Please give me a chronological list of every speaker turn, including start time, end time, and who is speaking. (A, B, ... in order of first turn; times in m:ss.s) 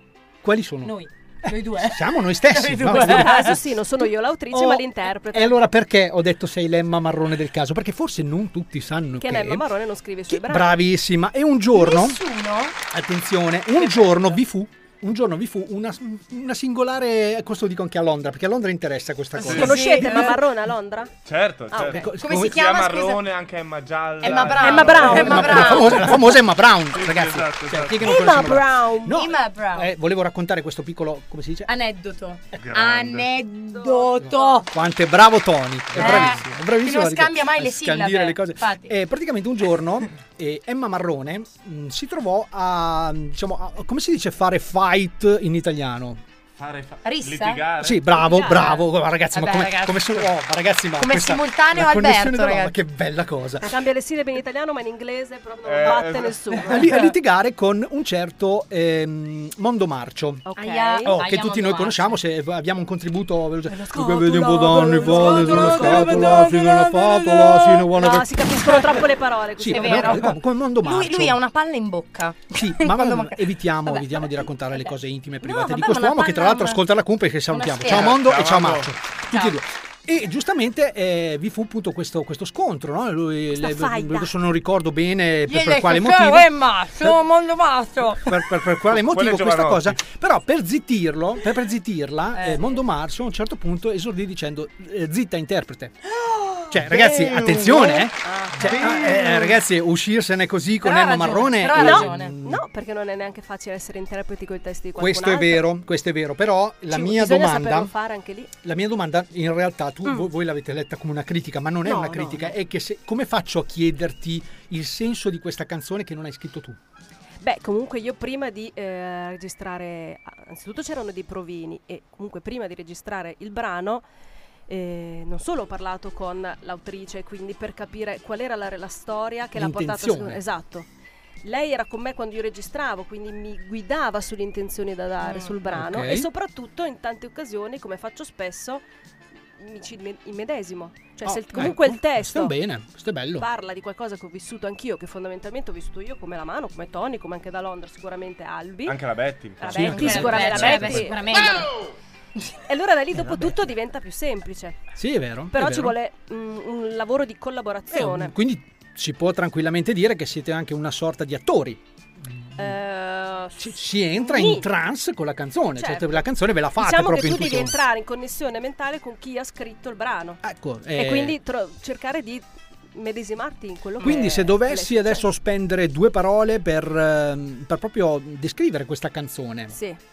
0:00.4-0:03.6 A
0:00.8-0:03.6 B
0:02.8-0:05.6 C
0:04.5-0:09.6 A
0:09.2-0:10.8 C
0:10.3-0:12.2 A
0:11.7-0:12.8 B
0:12.9-0:20.3 A
0:19.4-0:20.4 B
0:19.4-0:19.7 D
0:19.4-0:21.1 C
0:21.2-0:25.9 D
0:21.7-0:22.0 C
0:21.9-0:22.7 A
0:22.2-0:23.3 B
0:24.2-0:26.3 B
0:24.3-0:26.0 C
0:24.9-0:31.7 A
0:26.9-0:28.5 D
0:28.0-0:29.2 C
0:29.0-0:29.9 B
0:31.7-0:34.7 B
0:32.5-0:33.3 D
0:33.7-0:34.6 C
0:34.7-0:46.2 A
0:36.0-0:36.5 D
0:36.0-0:38.9 B
0:46.6-0:48.1 D
0:47.0-0:50.2 B
0:47.8-0:53.7 A
0:51.0-0:52.7 B
0:53.6-0:56.8 C
0:55.6-0:56.6 D
0:56.6-1:00.4 A
0:56.7-0:57.1 B
1:00.4-1:01.2 C
1:00.6-1:02.2 B
1:01.0-1:09.0 A
1:03.8-1:07.2 B
1:04.2-1:10.3 C
1:09.6-1:11.4 A
1:09.6-1:16.8 B
1:12.5-1:27.2 A
1:17.5-1:18.2 B
1:17.8-1:18.9 D
1:19.3-1:19.6 B
1:23.5-1:24.3 C
1:25.5-1:28.4 B
1:28.2-1:35.9 A
1:28.9-1:30.0 D
1:32.3-1:32.8 B
1:36.2-1:36.7 B
1:36.7-1:42.6 A
1:38.2-1:39.2 C
1:38.7-1:39.5 B
1:40.8-1:42.3 B
1:41.7-1:45.6 C
1:45.0-1:47.9 A
1:46.9-1:48.5 C
1:48.6-1:56.8 A
1:51.8-1:52.5 C
1:57.4-2:04.0 C
2:04.7-2:10.9 C
2:09.5-2:10.4 A
2:11.4-2:18.8 C
2:15.2-2:15.5 B
2:15.7-2:16.3 A
2:19.6-2:22.5 C
2:21.2-2:23.5 A
2:23.4-2:29.0 C
2:28.8-2:30.8 D
2:29.6-2:31.6 C
2:29.6-2:31.2 A
2:29.7-2:31.7 B
2:32.7-2:34.8 C
2:33.1-2:33.6 A
2:35.0-2:36.0 A
2:35.5-2:38.3 C
2:37.9-2:41.8 A
2:42.6-2:44.6 C
2:43.6-2:47.7 A
2:45.8-2:46.2 C
2:46.8-2:50.4 C
2:50.4-2:51.4 A
2:51.0-2:55.2 C
2:54.0-2:54.3 B
2:54.0-2:59.8 A
2:59.7-3:00.0 C